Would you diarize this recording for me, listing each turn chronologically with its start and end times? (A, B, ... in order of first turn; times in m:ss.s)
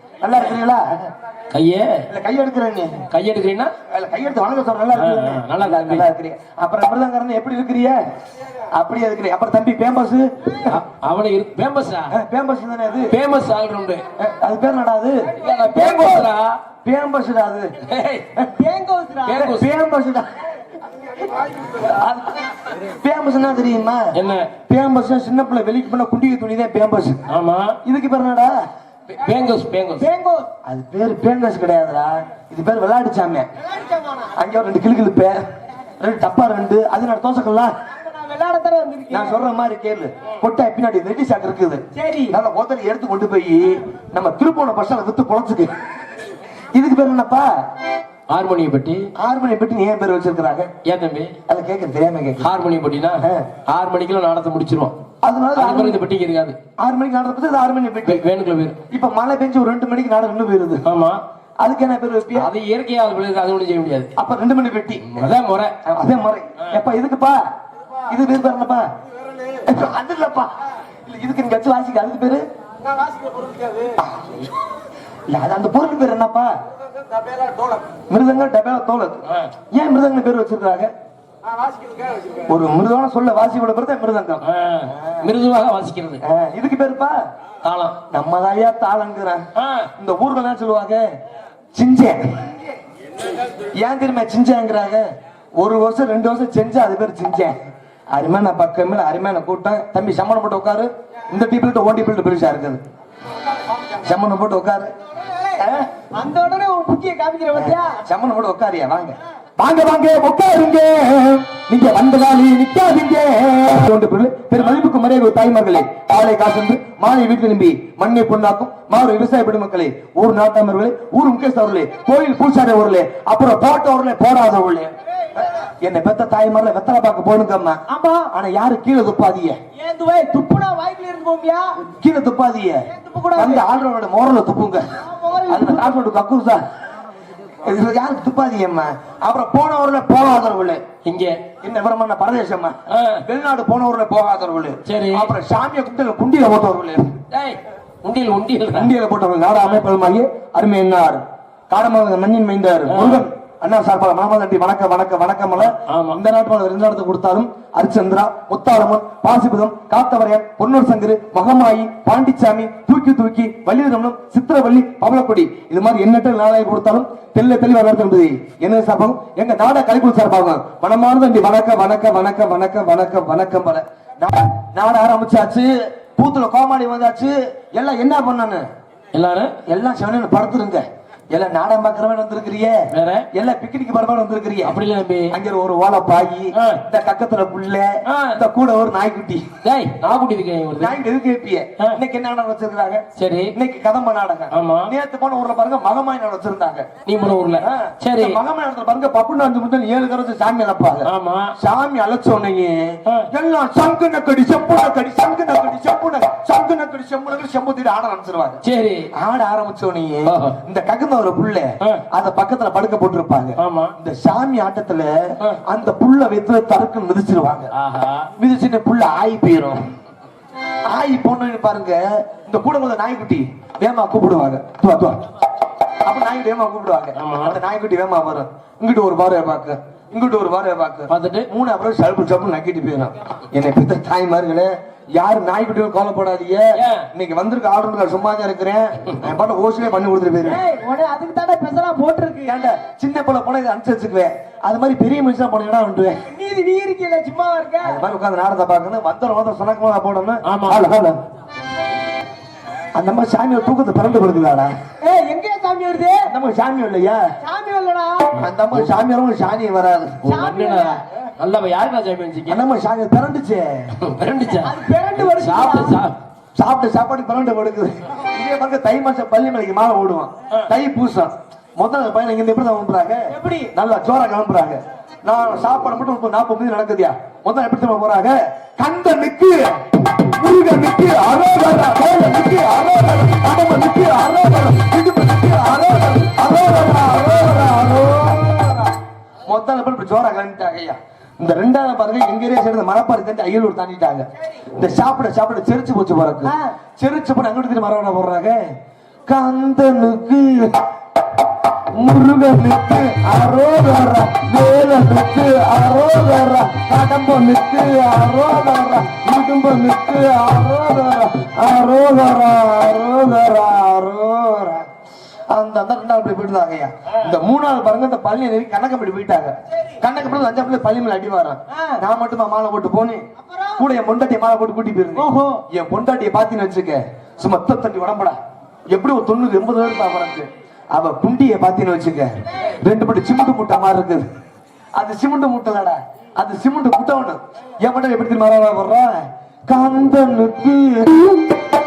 0:00.2-0:01.0 A
0:01.5-0:02.1 B
0:02.1-0:03.0 A
0:03.1-0:03.7 B
0:03.9-0:08.0 A
0:04.9-0:06.1 B
0:08.7-0:10.8 A
0:10.7-0:12.1 B
0:12.1-0:13.2 A
0:13.1-0:14.0 B
0:14.2-0:16.3 A
0:15.4-0:16.6 B
0:15.5-0:16.0 C
0:16.8-0:17.8 A
0:17.8-0:18.3 B
0:18.5-0:19.5 C
0:19.2-0:19.7 B
0:19.3-0:20.3 A
0:21.7-0:24.2 A
0:24.1-0:24.5 B
0:24.7-0:27.2 A
0:27.3-0:27.8 B
0:27.8-0:28.5 A
0:29.1-0:30.1 B
0:30.0-0:30.5 C
0:30.7-0:33.5 A
0:33.6-0:34.3 C
0:34.4-0:35.4 A
0:36.0-0:37.7 A
0:37.9-0:39.4 C
0:39.1-0:45.7 A
0:41.9-0:42.4 C
0:46.7-0:47.5 A
0:48.3-0:49.1 B
0:49.2-0:50.7 A
0:50.8-0:51.4 B
0:51.5-0:52.4 A
0:52.4-0:55.0 B
0:53.2-0:53.5 A
0:55.2-0:56.0 A
0:55.6-0:56.6 B
0:56.8-0:58.2 A
0:58.0-0:58.8 B
0:58.9-1:00.8 A
1:00.8-1:01.2 B
1:01.6-1:02.5 A
1:02.3-1:04.1 B
1:04.2-1:05.3 A
1:05.0-1:05.8 B
1:05.8-1:07.4 A
1:08.1-1:08.9 A
1:09.6-1:12.4 A
1:14.0-1:14.4 A
1:15.3-1:16.5 A
1:18.1-1:20.9 A
1:19.3-1:19.5 B
1:22.5-1:25.2 A
1:24.4-1:26.2 B
1:26.2-1:27.2 A
1:27.6-1:28.0 B
1:28.1-1:29.4 A
1:29.6-1:29.9 B
1:30.0-1:31.0 A
1:31.8-1:32.4 A
1:33.8-1:35.1 A
1:35.6-1:37.6 A
1:38.1-1:42.8 A
1:43.9-1:44.9 A
1:45.5-1:45.9 A
1:46.1-1:48.0 C
1:47.6-2:09.6 A
2:07.9-2:08.3 C
2:09.8-2:11.8 C
2:11.8-2:14.9 A
2:12.9-2:13.6 C
2:15.0-2:16.0 C
2:15.5-2:16.6 A
2:17.6-2:20.8 A
2:21.0-2:21.4 B
2:21.6-2:27.2 A
2:22.9-2:23.2 B
2:24.8-2:25.3 B
2:27.3-2:28.9 B
2:28.7-2:58.7 A
2:32.9-2:33.3 B
2:35.6-2:36.2 B
2:59.1-2:59.6 B
2:59.7-3:09.4 A
3:02.9-3:03.3 B
3:04.6-3:05.4 B
3:06.5-3:06.8 B
3:08.1-3:08.4 B
3:09.6-3:11.0 B
3:10.8-3:16.9 A
3:13.2-3:13.6 B
3:14.5-3:14.9 B
3:17.1-3:18.4 B
3:17.6-3:28.6 A
3:21.0-3:21.6 B
3:28.6-3:29.1 B
3:29.1-3:37.7 A
3:30.2-3:30.6 B
3:33.6-3:34.0 B
3:37.7-3:38.3 B
3:38.4-3:39.8 A
3:40.8-3:45.2 A
3:46.0-4:00.6 A
3:47.2-3:47.6 B
3:51.1-3:51.5 B
3:56.8-3:57.1 B
4:00.4-4:02.6 C
4:02.4-4:06.2 A
4:06.3-4:08.0 C
4:07.8-4:11.2 A
4:10.4-4:10.9 B
4:13.0-4:14.7 A
4:15.0-4:16.3 C
4:16.3-4:17.4 A
4:17.4-4:18.4 C
4:18.4-4:20.2 A
4:20.2-4:22.6 B
4:20.3-4:21.0 C
4:22.5-4:23.9 A
4:24.0-4:26.2 B
4:24.6-4:26.0 C
4:26.6-4:48.9 A
4:33.3-4:33.7 C
4:49.5-4:58.6 A
4:56.4-4:56.7 C
4:59.3-5:00.8 A
5:01.9-5:14.9 A
5:15.5-5:23.2 A
5:21.7-5:22.0 C
5:23.4-5:23.8 C
5:23.8-5:28.4 A
5:25.2-5:25.6 C
5:28.9-5:34.3 A
5:35.0-5:41.5 A